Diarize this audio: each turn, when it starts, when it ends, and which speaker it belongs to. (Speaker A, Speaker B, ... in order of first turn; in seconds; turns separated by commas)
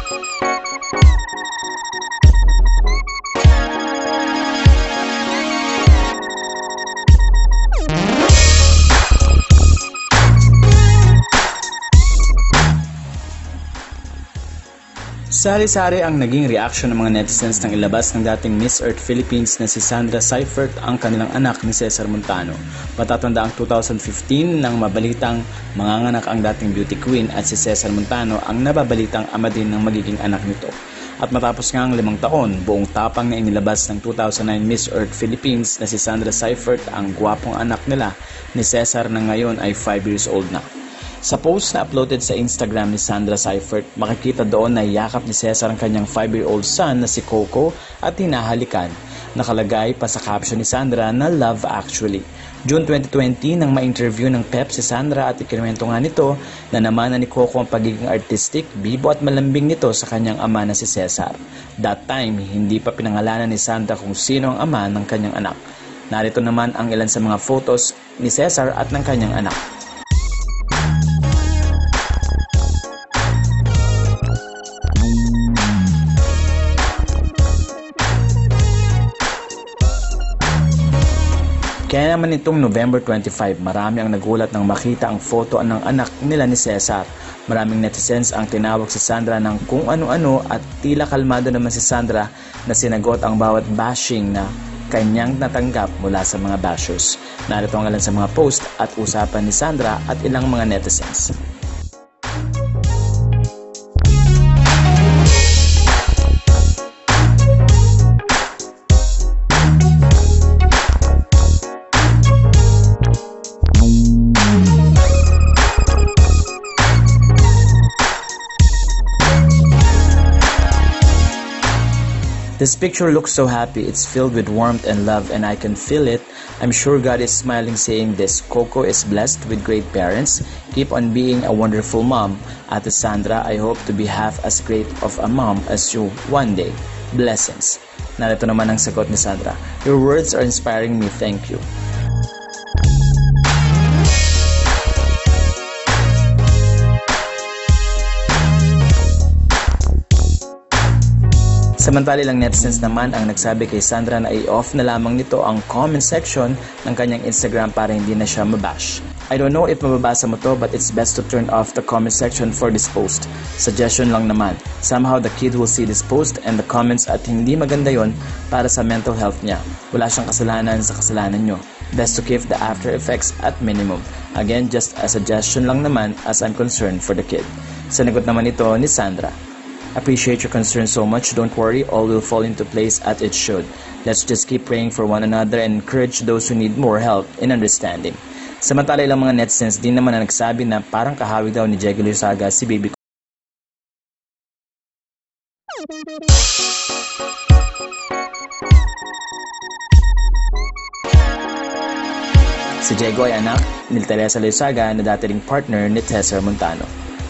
Speaker A: 15.3-40.7, Speaker A: 41.2-69.6, Speaker A: 81.9-101.4, Speaker A: 122.6-141.7, Speaker A: 151.8-179.4, Speaker A: 179.9-192.9, Speaker A: 202.8-206.9